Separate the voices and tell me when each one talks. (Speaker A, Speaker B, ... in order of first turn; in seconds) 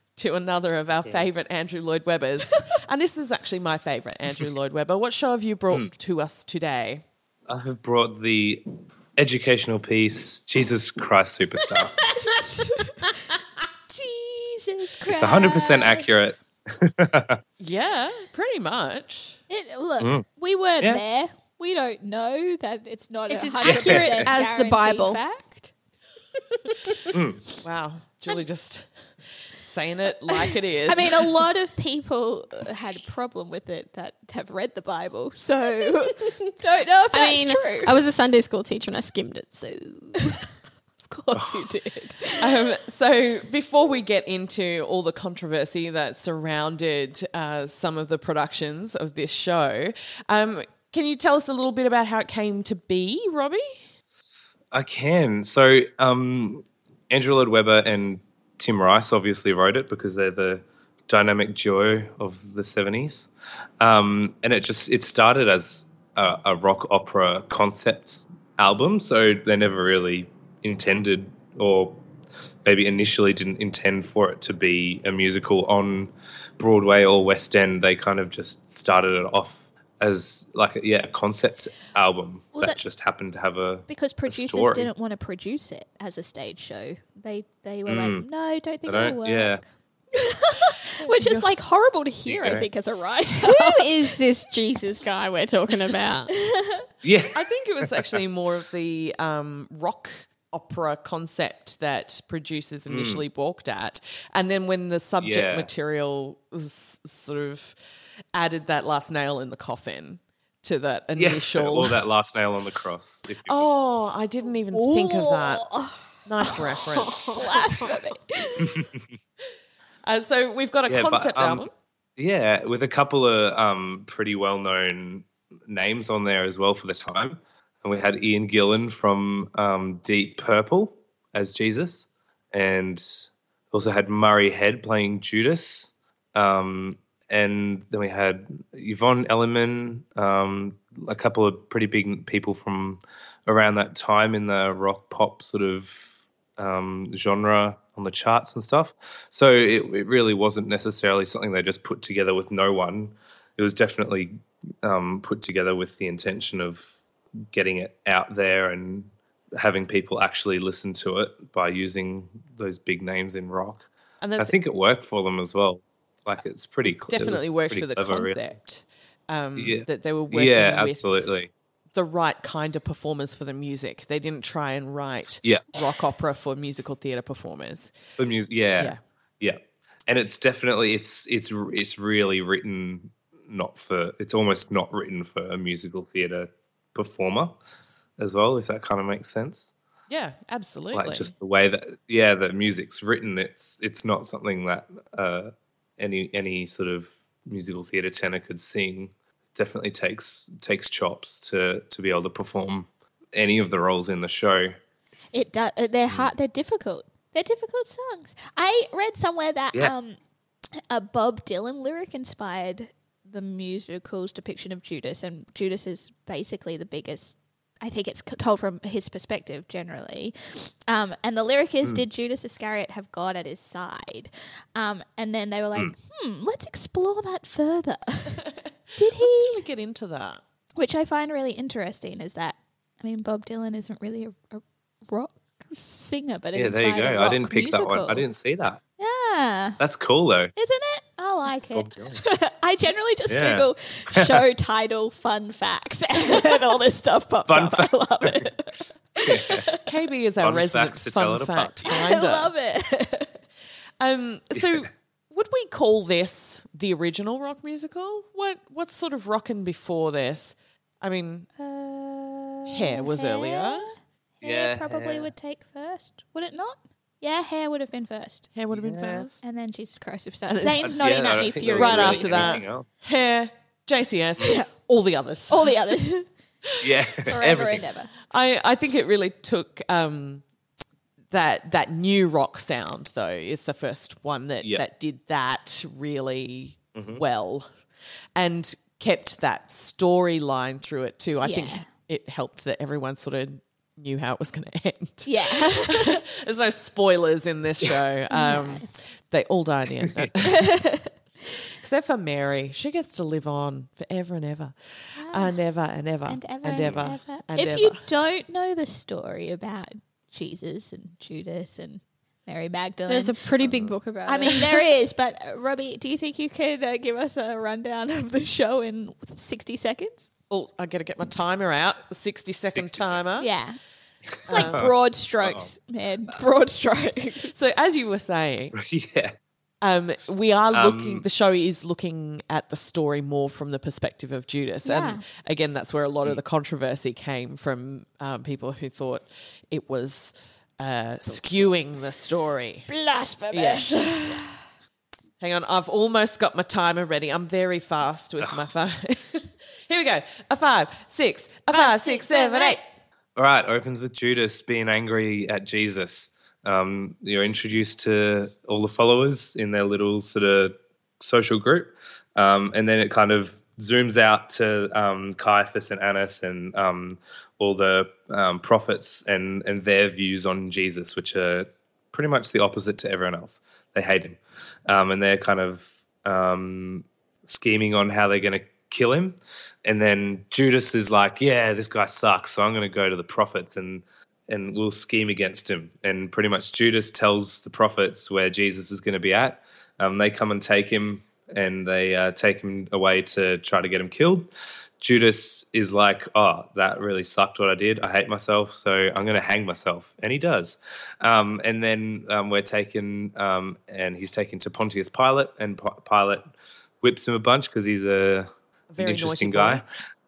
Speaker A: 0.2-7.0, 17.6-19.4, 27.6-28.9, 29.4-31.4, 42.4-53.8, 91.0-91.5, 97.3-107.8, 108.3-112.0, 113.5-115.7, 116.2-117.4, 120.0-121.7, 164.2-164.6, 166.8-171.3, 171.9-177.9, 190.1-191.3, 229.1-230.4, 249.8-252.5, 254.0-261.5, 262.7-263.9, 268.5-269.4, 270.5-270.9, 271.7-275.8, 278.3-280.4, 281.3-287.7, 288.4-300.7, 301.8-304.8, 305.3-308.0, 320.5-323.5, 324.5-324.9, 327.5-328.7, 329.8-342.9, 343.5-344.4, 345.4-352.8, 408.9-409.8
Speaker B: 7.5-8.6, 9.2-12.0, 15.1-17.4, 23.6-24.3, 27.1-27.4, 54.7-72.0, 72.6-84.9, 87.8-88.3, 88.8-89.6, 92.2-92.7, 97.0-98.0, 102.9-103.2, 105.2-105.7, 111.2-113.7, 118.7-119.0, 120.9-156.9, 157.5-163.8, 164.4-168.4, 169.6-171.5, 175.4-175.7, 178.2-187.5, 188.2-189.7, 190.9-204.8, 236.5-238.8, 239.8-240.5, 241.7-242.2, 243.3-244.4, 247.5-248.4, 249.2-249.7, 250.4-251.8, 264.4-265.3, 268.7-269.3, 270.8-273.0, 276.8-277.9, 286.9-287.2, 313.6-313.9, 322.6-323.2, 324.4-325.7, 328.7-329.3, 330.7-331.2, 353.4-394.5, 395.0-406.5, 407.0-409.8
Speaker C: 12.2-13.1, 13.9-16.1, 19.5-25.7, 30.3-38.0, 41.1-42.6, 82.5-82.8, 83.9-89.6, 90.1-94.1, 96.3-96.8, 114.7-116.6, 117.3-118.8, 205.3-210.2, 210.9-228.4, 228.9-229.6, 230.8-238.2, 239.0-239.8, 240.6-249.8, 251.8-253.4, 261.6-268.5, 269.4-272.6, 274.4-274.7, 275.5-276.3, 277.2-278.1, 291.4-291.9, 295.2-296.2, 298.3-298.9, 300.4-301.1, 305.2-305.6, 306.3-313.4, 314.2-320.3, 323.4-323.8, 324.5-327.5, 334.8-335.2, 341.3-341.7, 342.9-344.4, 351.7-352.8
Speaker D: 23.3-25.2, 37.1-40.2, 93.4-96.3, 117.1-117.4, 313.1-314.9